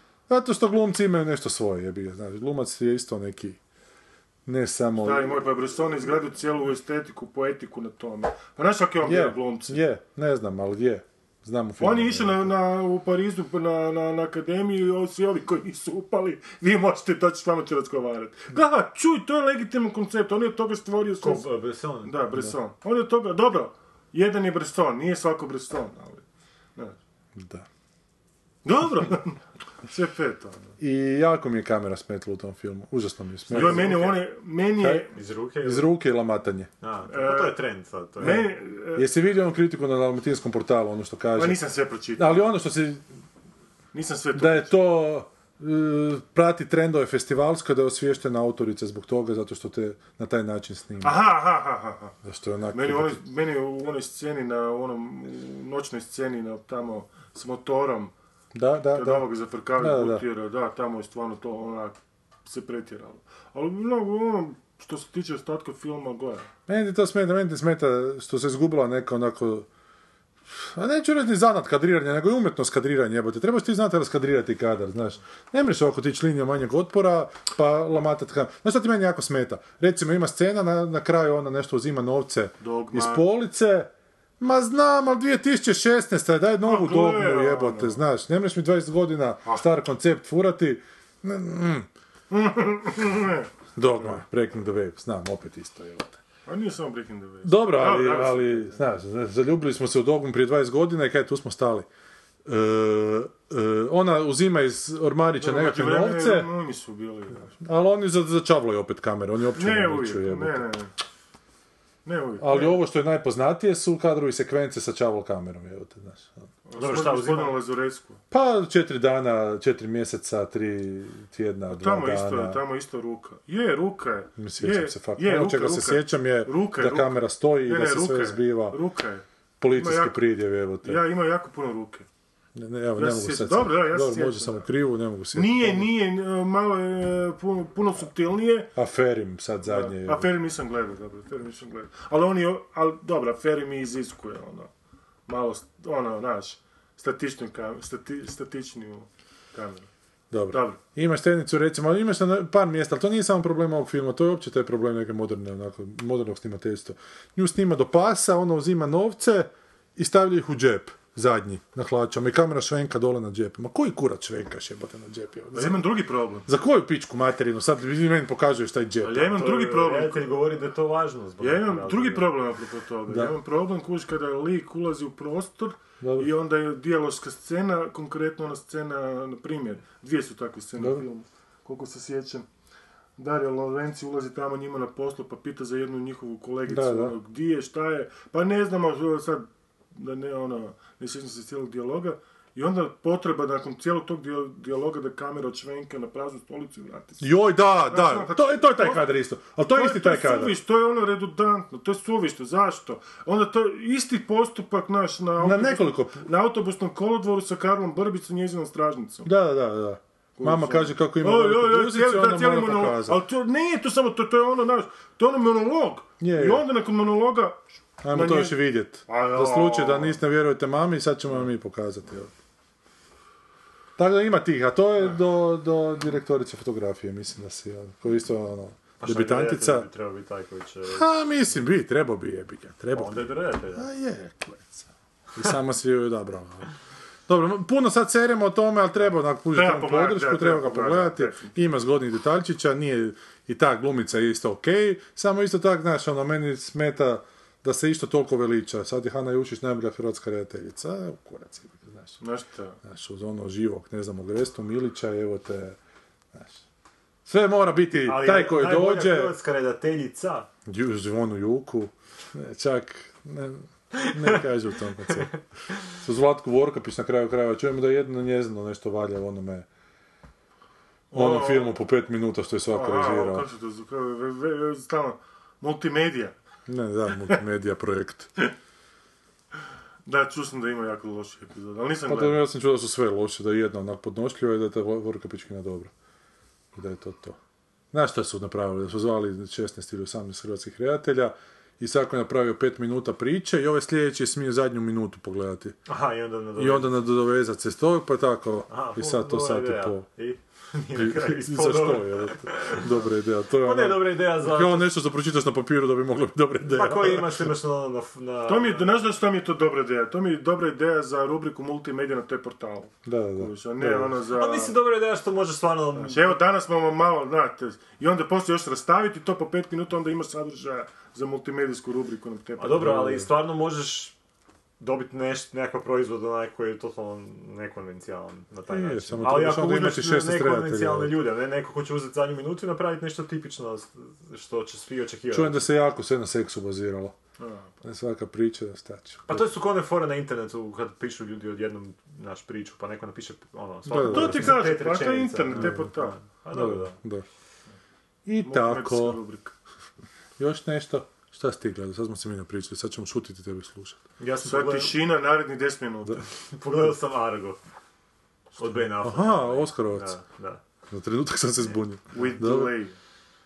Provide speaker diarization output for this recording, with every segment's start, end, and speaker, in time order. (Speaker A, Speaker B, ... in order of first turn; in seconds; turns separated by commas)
Speaker A: 0.3-3.6, Speaker A: 4.5-5.4, Speaker B: 5.0-9.8, Speaker A: 9.0-12.5, Speaker B: 11.8-21.5, Speaker C: 21.2-22.1, Speaker B: 22.0-26.2, Speaker A: 27.4-27.7, Speaker B: 28.6-30.6, Speaker A: 30.8-34.2, Speaker B: 33.5-35.1, Speaker C: 33.5-34.2, Speaker A: 34.8-35.1, Speaker C: 35.1-35.9, Speaker A: 35.6-36.7, Speaker C: 36.8-38.5, Speaker B: 37.1-37.6, Speaker B: 38.2-39.1, Speaker A: 38.2-41.6, Speaker B: 41.4-42.4, Speaker A: 42.2-43.0, Speaker B: 43.9-44.7, Speaker A: 44.3-51.2, Speaker B: 51.0-52.1, Speaker A: 52.2-53.2, Speaker B: 52.7-58.1, Speaker A: 58.5-60.2, Speaker B: 58.9-66.5, Speaker A: 66.7-69.7, Speaker A: 70.5-91.9, Speaker B: 82.6-83.2, Speaker B: 86.6-88.0, Speaker B: 92.3-94.2, Speaker A: 93.8-96.2, Speaker B: 96.5-98.8, Speaker A: 97.4-101.9, Speaker A: 102.4-106.5, Speaker B: 105.4-107.5, Speaker A: 107.6-110.7, Speaker B: 109.5-110.9, Speaker B: 112.0-112.8, Speaker A: 112.4-116.5, Speaker B: 116.7-118.2, Speaker C: 116.8-117.5, Speaker A: 118.3-122.6, Speaker B: 121.7-132.1, Speaker A: 124.4-128.8, Speaker A: 129.6-131.0, Speaker A: 132.5-135.9, Speaker B: 132.9-134.7, Speaker B: 135.3-138.7, Speaker A: 138.7-140.3, Speaker B: 139.6-144.7, Speaker B: 145.3-149.9, Speaker A: 150.3-165.8, Speaker B: 150.5-150.8, Speaker B: 165.5-166.4, Speaker A: 166.4-169.5, Speaker B: 169.0-170.3, Speaker C: 169.4-172.3, Speaker B: 171.4-182.4, Speaker A: 173.1-173.3, Speaker A: 176.0-176.3, Speaker A: 180.8-181.0, Speaker B: 183.2-197.3, Speaker A: 186.7-187.2, Speaker A: 197.2-200.6, Speaker B: 197.8-199.1, Speaker B: 199.7-209.3, Speaker A: 205.4-206.3, Speaker A: 209.2-213.2, Speaker B: 210.4-220.2, Speaker A: 216.2-216.6, Speaker A: 218.0-222.3, Speaker A: 224.0-229.9, Speaker C: 229.0-231.1, Speaker A: 230.9-236.7, Speaker C: 232.9-233.9, Speaker A: 237.3-252.2, Speaker B: 239.5-241.6, Speaker B: 252.2-252.8, Speaker A: 252.8-255.8, Speaker A: 256.3-256.6, Speaker A: 257.2-259.3, Speaker C: 258.0-260.5, Speaker A: 260.6-269.7, Speaker C: 263.9-264.4, Speaker B: 271.1-271.8, Speaker A: 271.1-273.5, Speaker B: 272.7-276.3, Speaker A: 276.7-278.3, Speaker B: 280.1-282.4, Speaker A: 282.1-285.9, Speaker A: 286.7-287.4, Speaker A: 287.9-295.8, Speaker C: 295.9-297.0, Speaker A: 296.6-300.1, Speaker C: 298.7-302.9, Speaker A: 300.9-307.5, Speaker C: 303.6-304.9, Speaker C: 306.7-309.0, Speaker B: 308.4-314.7, Speaker A: 313.1-314.1, Speaker C: 314.3-316.4, Speaker B: 316.0-323.0, Speaker C: 322.6-324.1, Speaker A: 322.8-323.3, Speaker C: 324.8-335.7, Speaker A: 328.7-331.2, Speaker A: 335.3-337.2, Speaker B: 337.4-337.7, Speaker A: 337.8-339.5, Speaker C: 339.3-347.0, Speaker A: 343.8-344.8, Speaker B: 344.0-346.2, Speaker A: 345.5-345.9, Speaker A: 346.5-347.2, Speaker A: 348.2-349.2, Speaker B: 348.4-349.5, Speaker A: 350.4-354.0, Speaker C: 354.2-355.0, Speaker B: 354.4-356.2, Speaker C: 356.5-357.6, Speaker C: 358.6-360.6, Speaker A: 358.7-360.1, Speaker A: 360.9-362.8, Speaker B: 362.1-362.9